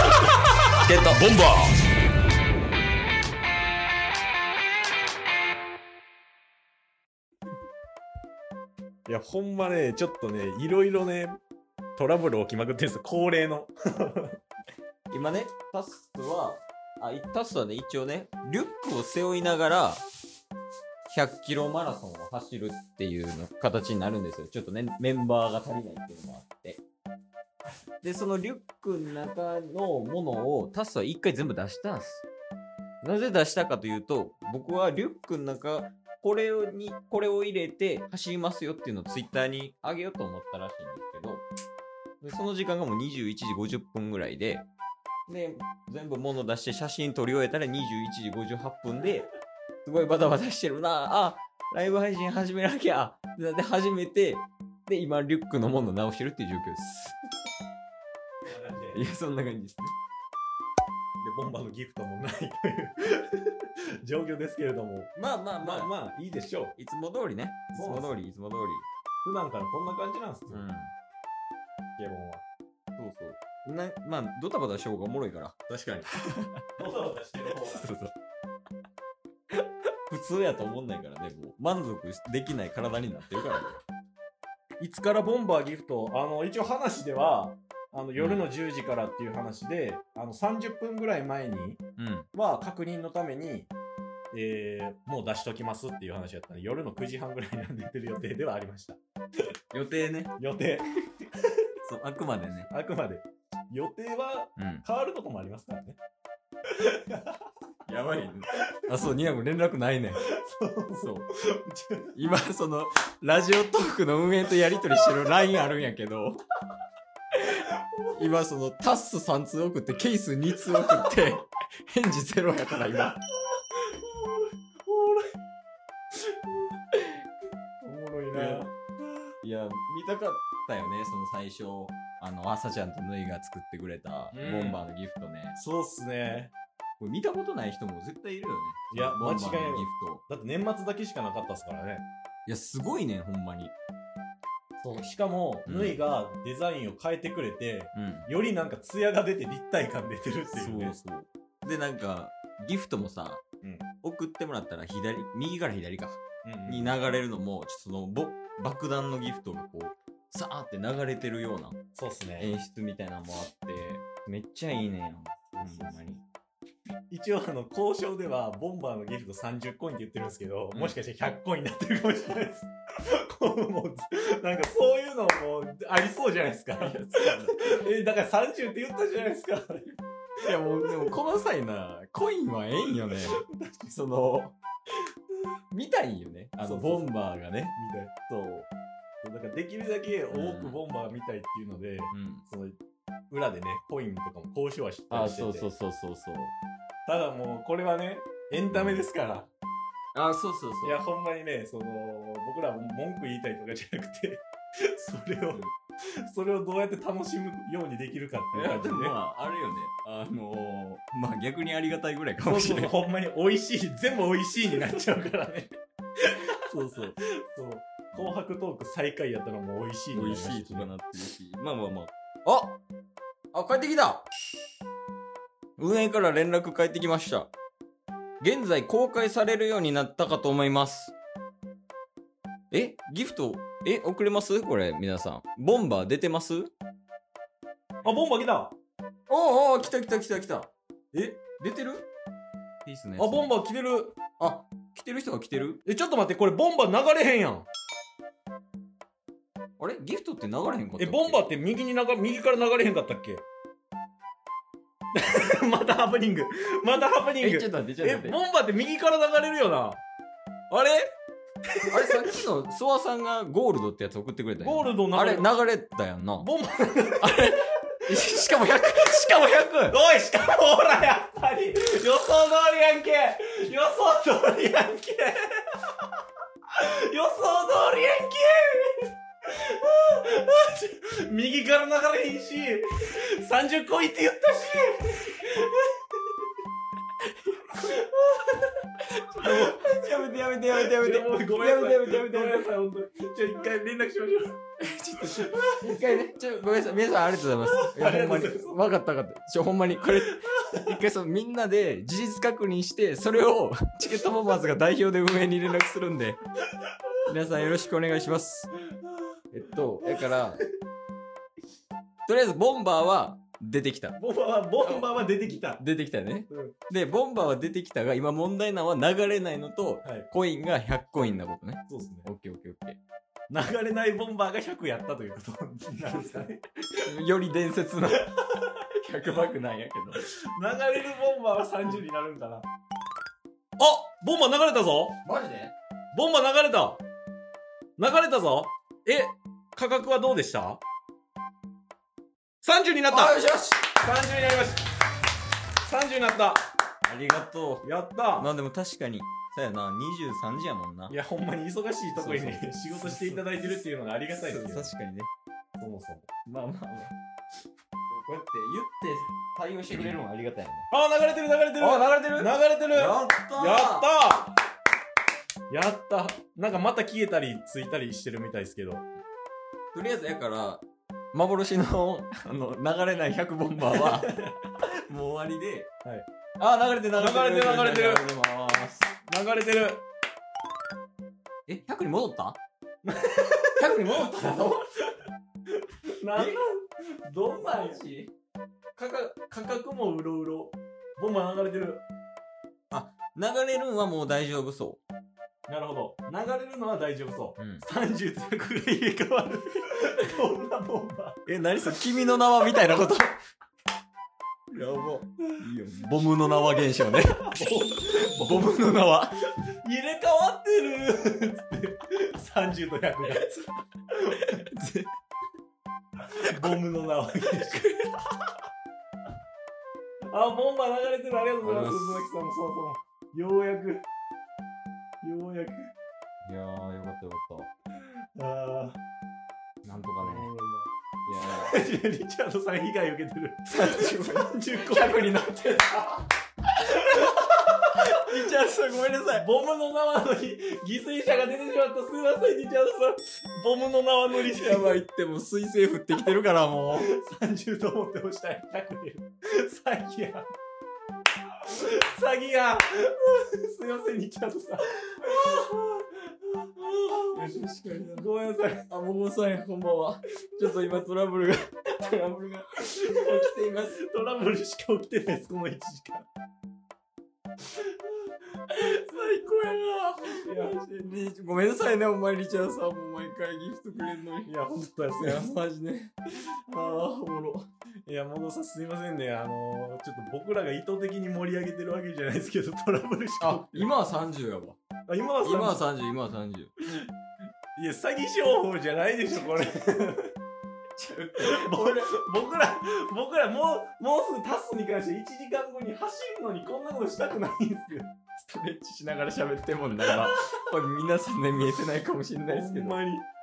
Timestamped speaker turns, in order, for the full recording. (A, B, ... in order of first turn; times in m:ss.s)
0:00.8-0:01.4 A
0:01.1-0:01.7 B
0:09.1-0:11.4 B
0:12.0-0:14.4 B
0:15.1-0:20.0 A
0:21.1-0:26.8 A
0:28.0-0:32.3 A
0:33.0-0:41.4 A
0:42.2-0:44.7 A
0:45.3-0:49.3 A
0:49.8-0:57.2 A
0:58.5-0:59.1 B
0:58.9-1:00.0 A
1:01.2-1:06.8 B
1:05.2-1:05.9 A
1:06.8-1:08.9 A
1:07.8-1:08.2 B
1:09.2-1:10.7 B
1:10.5-1:10.9 A
1:12.0-1:12.4 B
1:13.0-1:16.6 A
1:15.7-1:16.0 B
1:16.8-1:17.9 B
1:17.6-1:18.1 A
1:20.1-1:23.8 A
1:24.8-1:31.8 B
1:28.2-1:28.5 A
1:32.0-1:32.3 A
1:32.4-1:33.7 B
1:34.3-1:39.0 B
1:39.7-1:40.4 A
1:40.4-1:40.9 B
1:41.8-1:42.7 A
1:42.7-1:46.0 B
1:44.6-1:44.8 A
1:46.8-1:47.4 B
1:47.9-1:50.2 A
1:50.3-1:52.1 B
1:51.0-1:51.3 A
1:52.2-1:56.4 A
1:57.4-1:57.6 A
1:58.2-2:03.2 A
2:03.9-2:05.3 B
2:07.8-2:08.7 B
2:08.3-2:08.7 A
2:09.4-2:15.6 A
2:14.3-2:14.8 B
2:15.6-2:16.5 B
2:17.0-2:20.2 A
2:18.9-2:22.0 B
2:22.5-2:23.7 A
2:24.8-2:31.0 B
2:25.7-2:26.0 A
2:28.0-2:28.3 A
2:30.5-2:33.4 A
2:34.0-2:41.8 A
2:36.4-2:37.0 B
2:42.0-2:42.5 B
2:42.4-2:46.2 A
2:45.6-2:46.0 B
2:47.1-2:52.7 B
2:53.3-3:01.1 B
2:56.8-2:57.6 A
3:00.5-3:04.6 A
3:03.5-3:04.0 B
3:05.7-3:07.8 A
3:06.6-3:07.1 B
3:07.8-3:08.2 B
3:08.3-3:08.7 A
3:09.2-3:12.8 B
3:10.3-3:10.8 A
3:12.1-3:12.4 A
3:13.3-3:15.7 B
3:15.1-3:16.5 A
3:17.1-3:19.5 B
3:18.7-3:19.1 A
3:20.2-3:21.0 A
3:20.8-3:24.4 B
3:25.0-3:25.6 B
3:26.3-3:29.2 B
3:28.5-3:32.9 A
3:32.4-3:35.7 B
3:36.7-3:37.2 A
3:37.4-3:40.9 B
3:40.1-3:42.8 A
3:43.5-3:44.3 A
3:45.8-3:47.5 A
3:48.4-3:51.1 A
3:52.7-3:56.7 A
3:58.0-3:58.8 B
3:59.3-4:00.7 A
4:01.1-4:01.4 B
4:01.6-4:02.0 A
4:02.8-4:03.5 A
4:03.2-4:04.2 B
4:04.4-4:05.8 A
4:05.8-4:07.7 B
4:09.8-4:11.4 A
4:11.0-4:13.4 B
4:15.2-4:20.0 B
4:17.4-4:18.4 A
4:20.7-4:21.1 B
4:21.8-4:22.2 B
4:21.9-4:26.5 A
4:24.6-4:25.5 B
4:26.4-4:27.6 B
4:27.2-4:30.0 A
4:28.1-4:28.6 B
4:29.9-4:35.4 B
4:36.8-4:46.0 B
4:47.5-4:47.9 A
4:47.8-4:48.6 B
4:49.1-4:52.7 A
4:49.4-4:50.0 B
4:50.7-4:54.6 B
4:54.8-5:06.4 A
4:55.2-4:56.0 B
4:57.7-4:58.8 B
5:07.3-5:08.7 A
5:09.5-5:10.6 A
5:10.0-5:10.6 B
5:12.3-5:14.2 A
5:14.2-5:15.8 B
5:14.8-5:15.2 A
5:15.8-5:23.0 A
5:16.5-5:16.8 B
5:20.0-5:20.3 B
5:21.9-5:22.3 B
5:23.5-5:26.6 B
5:27.0-5:30.2 A
5:30.2-5:32.7 B
5:33.8-5:35.2 B
5:35.2-5:35.7 A
5:36.1-5:37.0 B
5:38.0-5:40.8 B
5:42.6-5:43.4 B
5:43.1-5:43.9 A
5:44.0-5:44.8 B
5:45.9-5:46.7 B
5:47.1-5:47.9 A
5:47.8-5:48.5 B
5:48.4-5:51.1 A
5:51.1-5:54.9 B
5:52.1-5:53.8 A
5:54.3-5:55.3 A
5:55.8-5:56.3 B
5:56.5-5:57.1 A
5:58.1-6:00.9 A
6:00.9-6:04.6 B
6:01.8-6:04.1 A
6:05.7-6:09.0 B
6:09.9-6:15.9 A
6:13.9-6:14.5 B
6:16.6-6:19.1 A
6:17.2-6:18.3 B
6:19.3-6:20.0 B
6:21.7-6:22.6 A
6:23.0-6:24.6 B
6:23.8-6:24.8 A
6:26.2-6:28.2 B
6:27.8-6:28.3 A
6:29.0-6:32.0 B
6:32.9-6:35.0 A
6:35.7-6:41.4 B
6:37.6-6:37.8 A
6:41.5-6:43.4 A
6:44.7-6:49.4 A
6:47.4-6:48.8 B
6:49.8-6:53.5 B
6:53.3-6:53.6 A
6:54.3-6:54.6 B
6:54.4-6:55.1 A
6:56.5-6:57.9 B
6:57.6-6:58.2 A
7:00.3-7:04.0 B
7:01.6-7:02.3 A
7:05.2-7:05.9 B
7:06.4-7:07.7 A
7:08.4-7:09.0 B
7:09.8-7:10.5 A
7:10.2-7:10.9 B
7:11.3-7:11.8 A
7:11.6-7:16.2 B
7:13.7-7:16.0 A
7:18.0-7:19.5 A
7:19.3-7:25.0 B
7:24.3-7:27.1 A
7:27.0-7:30.5 B
7:31.7-7:38.9 B
7:36.9-7:38.3 A
7:38.9-7:44.0 A
7:42.9-7:46.3 B
7:48.7-7:57.7 A
7:50.4-7:50.8 B
7:54.5-7:55.6 B
7:58.1-8:03.9 B
8:03.4-8:04.8 A
8:05.1-8:05.8 B
8:05.4-8:06.7 A
8:07.8-8:10.3 B
8:09.3-8:09.7 A
8:11.0-8:12.1 A
8:11.4-8:18.1 B
8:18.4-8:23.0 A
8:22.5-8:23.2 B